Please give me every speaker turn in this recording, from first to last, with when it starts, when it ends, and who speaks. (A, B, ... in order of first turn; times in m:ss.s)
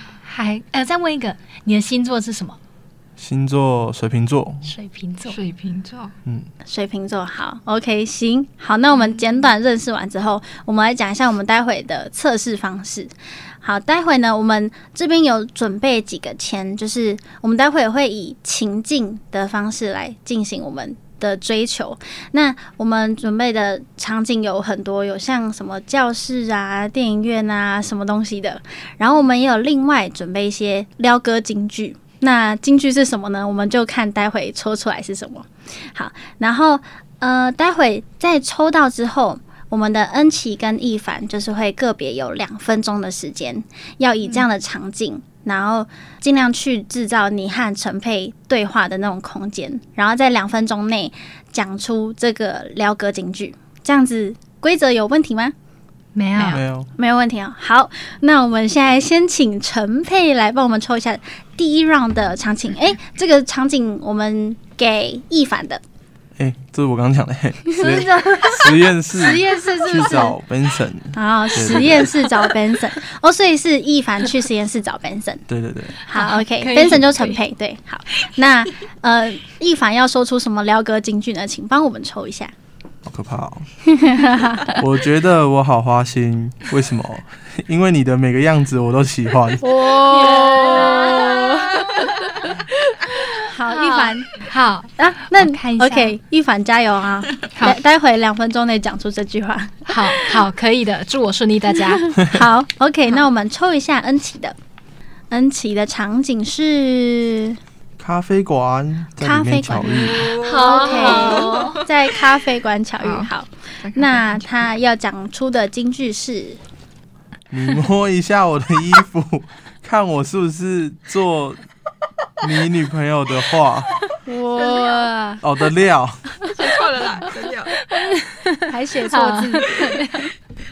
0:00.2-0:02.6 A
0:03.2-0:04.7 B
0:04.6-0:05.4 A
0:05.3-0:06.1 C
0:06.6-0:55.5 D
0:56.1-0:56.6 A
0:56.4-0:56.9 B
0:57.0-1:05.8 D
1:06.4-1:12.3 B
1:07.7-1:10.4 D
1:11.1-1:15.4 D
1:15.5-1:16.0 B
1:16.0-1:22.5 D
1:16.1-1:17.4 A
1:23.0-1:23.7 B
1:23.8-1:24.8 D
1:24.6-1:29.9 B
1:29.6-1:34.4 D
1:30.0-1:32.3 A
1:33.6-1:36.1 A
1:35.0-1:40.4 D
1:39.9-1:42.2 A
1:42.0-1:44.6 D
1:45.3-1:47.6 D
1:48.0-1:50.3 B
1:49.2-1:56.6 D
1:50.0-1:51.9 C
1:50.4-1:51.8 A
1:53.0-1:53.3 C
1:53.8-1:54.6 C
1:57.5-2:01.6 B
2:02.4-2:03.9 B
2:04.2-2:05.4 D
2:04.6-2:05.1 C
2:05.4-2:06.4 B
2:06.5-2:07.8 C
2:07.8-2:10.3 A
2:08.7-2:10.3 D